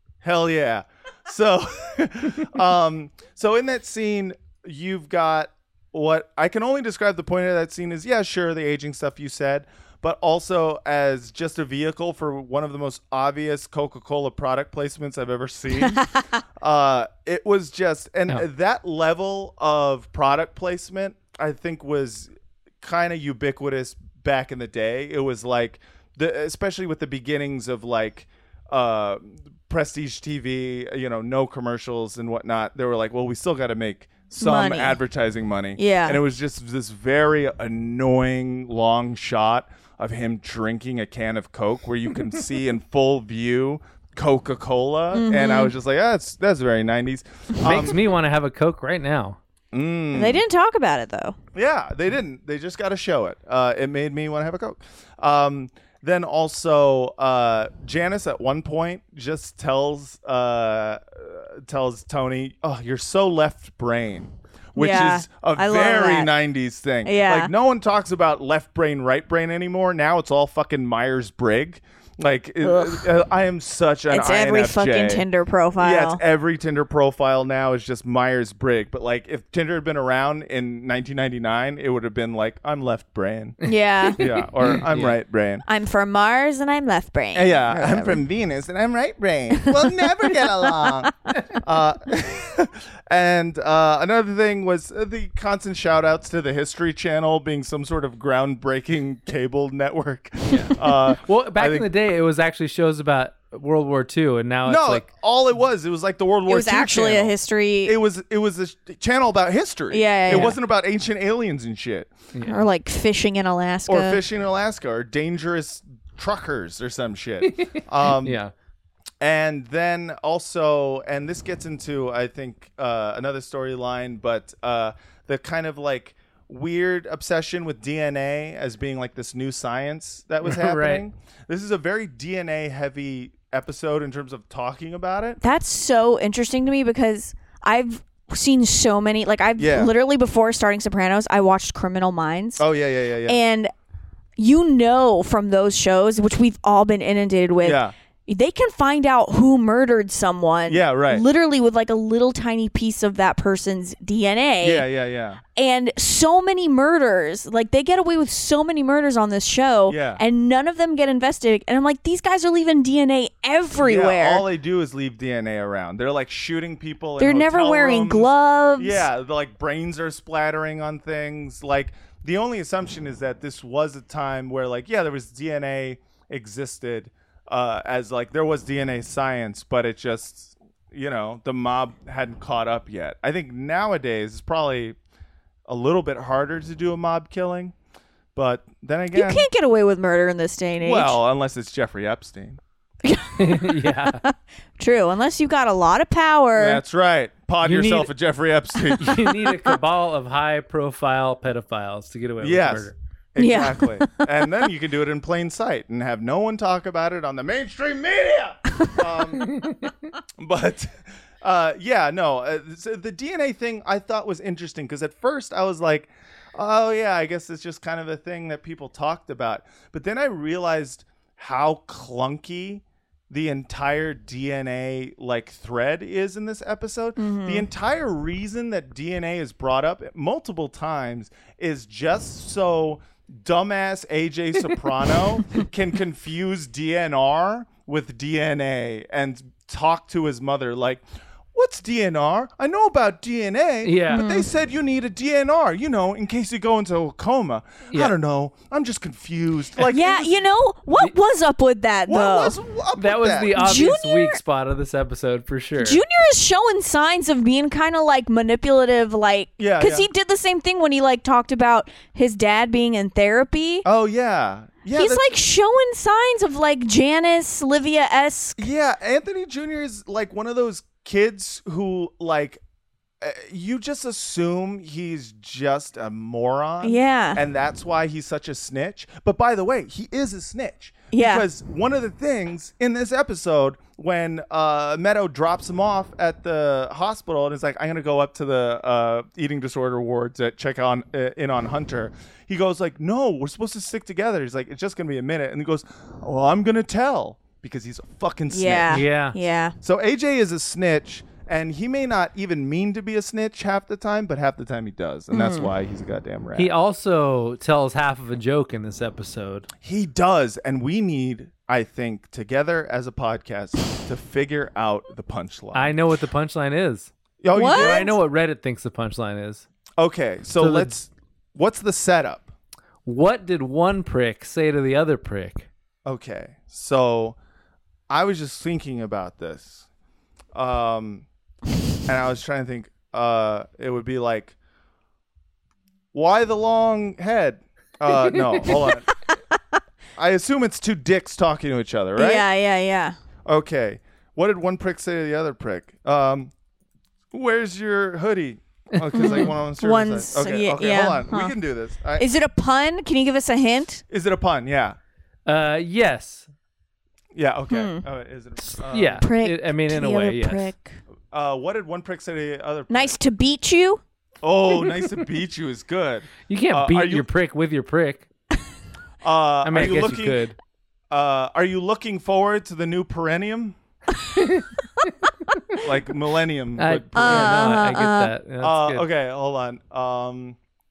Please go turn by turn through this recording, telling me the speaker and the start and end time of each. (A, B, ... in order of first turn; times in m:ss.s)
0:00.2-0:16.1 A
0:16.6-0:22.3 A
0:22.8-0:48.0 A
0:34.4-0:35.0 B
0:35.8-0:36.2 B
0:45.1-0:45.7 B
0:47.6-0:49.4 C
0:49.7-0:50.4 A
0:50.1-0:51.4 B
0:51.5-1:15.3 A
1:04.8-1:06.3 B
1:07.0-1:07.5 B
1:12.6-1:13.1 B
1:14.1-1:16.2 B
1:15.8-1:23.6 A
1:23.6-1:24.2 B
1:23.7-1:25.2 C
1:24.2-1:25.6 A
1:25.6-1:28.2 B
1:27.3-1:41.9 A
1:40.5-1:45.1 C
1:44.6-1:52.1 A
1:46.5-1:47.9 B
1:49.9-1:50.6 B
1:50.3-1:50.5 C
1:52.3-1:52.6 C
1:52.4-1:54.2 B
1:53.9-1:58.4 A
1:57.4-1:58.5 C
1:59.2-2:15.4 A
2:10.4-2:11.0 C
2:15.4-2:22.6 B
2:19.6-2:19.9 A
2:22.6-2:23.4 A
2:23.3-2:23.7 B
2:24.4-2:34.8 B
2:27.6-2:27.9 A
2:30.7-2:31.2 A
2:34.6-2:35.4 A
2:35.5-2:44.4 B
2:39.9-2:40.2 A
2:43.8-3:05.0 A
2:47.2-2:49.0 B
3:05.7-3:07.7 A
3:08.3-3:09.5 A
3:09.1-3:11.2 B
3:10.8-3:12.6 A
3:13.0-3:13.7 B
3:13.4-3:14.2 C
3:14.3-3:16.8 B
3:16.5-3:19.4 A
3:17.6-3:18.1 C
3:19.0-3:22.9 C
3:22.4-3:29.5 A
3:23.4-3:24.1 B
3:30.4-4:01.0 A
3:47.2-3:47.6 B
4:01.5-4:10.3 A
4:03.8-4:04.2 C
4:04.1-4:04.5 B
4:09.9-4:12.6 B
4:12.0-4:13.6 A
4:13.0-4:16.0 C
4:13.5-4:14.4 B
4:15.8-4:23.8 B
4:19.6-4:20.1 A
4:23.8-4:25.4 A
4:24.9-4:28.6 B
4:28.6-4:32.6 A
4:33.2-4:59.0 A
4:36.8-4:37.4 B
4:41.1-4:41.4 B
4:58.5-4:59.7 B
4:58.9-4:59.4 C
4:59.8-5:06.7 A
5:05.3-5:05.7 B
5:06.5-5:09.7 C
5:09.8-5:15.9 A
5:15.7-5:19.6 C
5:17.4-5:18.2 A
5:17.5-5:18.1 B
5:20.0-5:22.5 A
5:20.6-5:20.9 C
5:23.0-5:25.7 C
5:26.0-5:27.4 A
5:28.1-5:29.9 A
5:30.5-5:31.2 A
5:32.0-5:34.5 A
5:36.1-5:39.0 A
5:40.2-5:42.4 A
5:42.2-5:43.1 B
5:43.4-5:46.5 A
5:47.3-5:52.3 A
5:49.0-5:49.4 C
5:49.1-5:51.5 B
5:52.2-5:54.0 B
5:54.1-5:55.0 A
5:55.4-5:56.5 C
5:57.3-5:59.2 A
5:57.7-5:58.0 B
5:58.6-6:00.7 C
5:59.2-6:01.0 B
6:01.3-6:03.2 A
6:02.9-6:04.0 B
6:04.4-6:07.3 A
6:06.4-6:08.2 C
6:09.2-6:10.4 A
6:09.6-6:10.5 C
6:11.1-6:13.8 A
6:14.4-6:14.6 C
6:15.8-6:17.8 A
6:16.8-6:19.0 C
6:17.1-6:18.3 B
6:18.6-6:20.6 A